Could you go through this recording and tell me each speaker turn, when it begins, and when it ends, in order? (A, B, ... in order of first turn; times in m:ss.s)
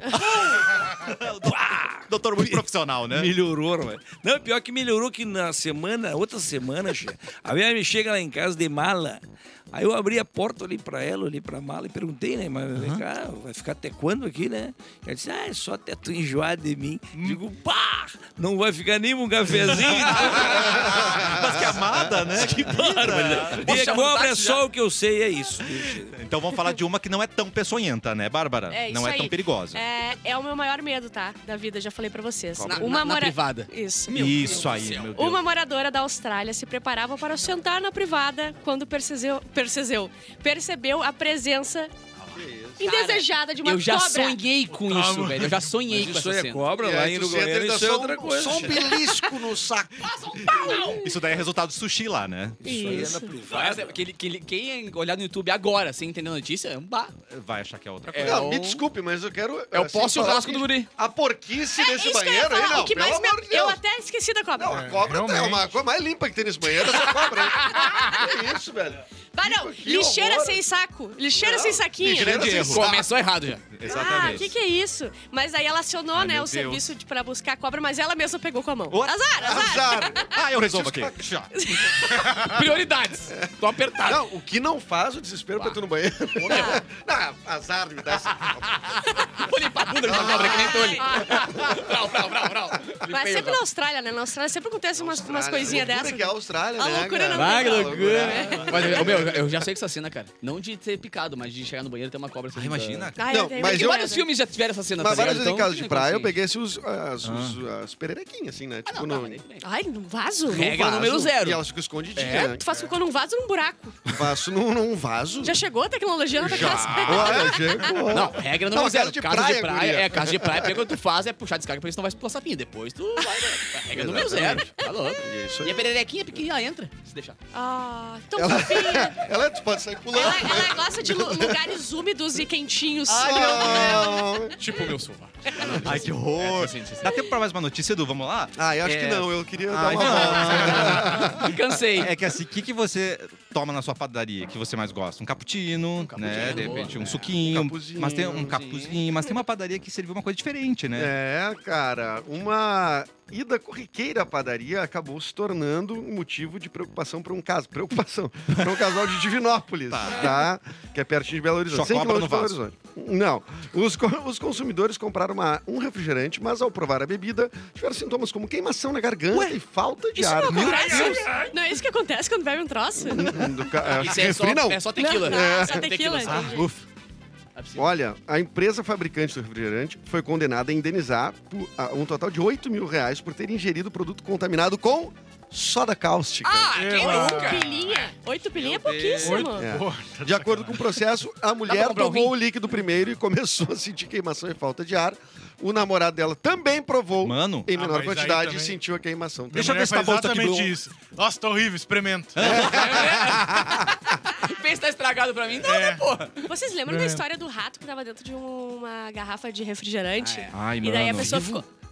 0:00.1-0:01.6 A
0:00.4-0:21.0 B
0:02.1-0:03.3 A
0:12.8-0:13.0 A
0:19.7-0:23.9 A
0:20.9-0:21.5 C
0:22.4-0:26.2 B
0:23.5-0:24.6 D
0:25.8-0:29.8 A
0:28.7-0:41.9 E
0:32.6-0:33.0 C
0:32.6-0:35.2 D
0:34.1-0:35.4 A
0:42.3-0:42.9 C
0:42.8-0:44.4 E
0:42.8-0:46.6 D
0:44.7-0:45.8 F
0:45.9-0:49.0 B
0:46.8-0:50.8 C
0:48.9-0:49.4 E
0:50.0-0:51.0 D
0:50.5-0:51.0 E
0:50.9-0:53.1 A
0:52.6-0:54.0 B
0:52.6-0:53.3 E
0:53.5-0:57.1 D
0:57.3-0:58.4 A
0:58.1-0:58.8 D
0:58.2-1:03.8 C
0:59.7-1:00.9 D
1:01.8-1:04.9 E
1:04.6-1:10.6 C
1:04.7-1:05.7 F
1:07.6-1:08.0 D
1:07.8-1:08.3 E
1:09.3-1:12.8 E
1:11.3-1:13.0 C
1:12.0-1:12.9 A
1:12.6-1:13.6 D
1:13.7-1:14.5 A
1:13.8-1:20.2 E
1:16.1-1:16.9 A
1:18.9-1:21.5 A
1:19.4-1:21.2 C
1:21.6-1:22.5 E
1:22.2-1:24.3 D
1:23.3-1:29.4 C
1:26.4-1:26.8 D
1:26.5-1:26.8 E
1:29.4-1:33.6 D
1:30.0-1:31.9 C
1:30.1-1:31.3 E
1:33.0-1:39.2 E
1:34.9-1:39.6 C
1:37.3-1:46.4 D
1:42.5-1:43.4 A
1:43.2-1:44.3 E
1:43.2-1:44.1 C
1:45.0-1:49.4 C
1:47.2-1:47.6 A
1:48.9-1:49.6 D
1:49.6-1:50.8 E
1:50.5-1:51.6 D
1:50.5-1:52.8 C
1:52.2-1:52.6 D
1:52.2-1:54.0 E
1:54.0-1:55.6 C
1:55.4-1:57.8 E
1:56.4-1:57.7 A
1:56.4-2:00.9 C
1:58.0-2:07.4 D
2:03.9-2:05.9 C
2:04.2-2:05.1 E
2:07.5-2:09.2 E
2:08.3-2:11.8 C
2:10.1-2:14.5 E
2:13.1-2:14.2 A
2:13.1-2:14.6 C
2:14.5-2:17.2 D
2:15.7-2:21.4 A
2:18.6-2:21.8 C
2:20.8-2:22.1 D
2:22.0-2:31.1 A
2:26.0-2:27.3 D
2:26.2-2:28.6 C
2:28.5-2:28.9 D
2:30.9-2:51.1 C
2:39.9-2:40.5 A
2:41.7-2:42.6 A
2:49.3-2:49.6 A
2:50.2-2:53.5 E
2:50.5-2:51.3 A
2:50.8-2:51.1 F
2:53.0-2:55.9 C
2:53.8-2:56.6 D
2:55.0-2:56.7 E
2:56.2-2:56.8 A
2:57.6-2:57.9 D
2:57.8-3:06.8 C
3:06.4-3:08.1 D
3:06.7-3:07.7 F
3:06.9-3:09.7 E
3:08.5-3:09.5 A
3:09.2-3:11.0 F
3:09.6-3:19.9 C
3:11.7-3:12.4 D
3:17.2-3:17.7 A
3:17.7-3:18.8 F
3:19.5-3:22.5 F
3:19.5-3:20.7 A
3:22.4-3:23.8 A
3:22.4-3:23.0 C
3:22.4-3:26.5 D
3:25.6-3:26.1 F
3:26.4-3:31.7 E
3:26.8-3:27.2 F
3:30.2-3:30.5 D
3:30.5-3:31.6 A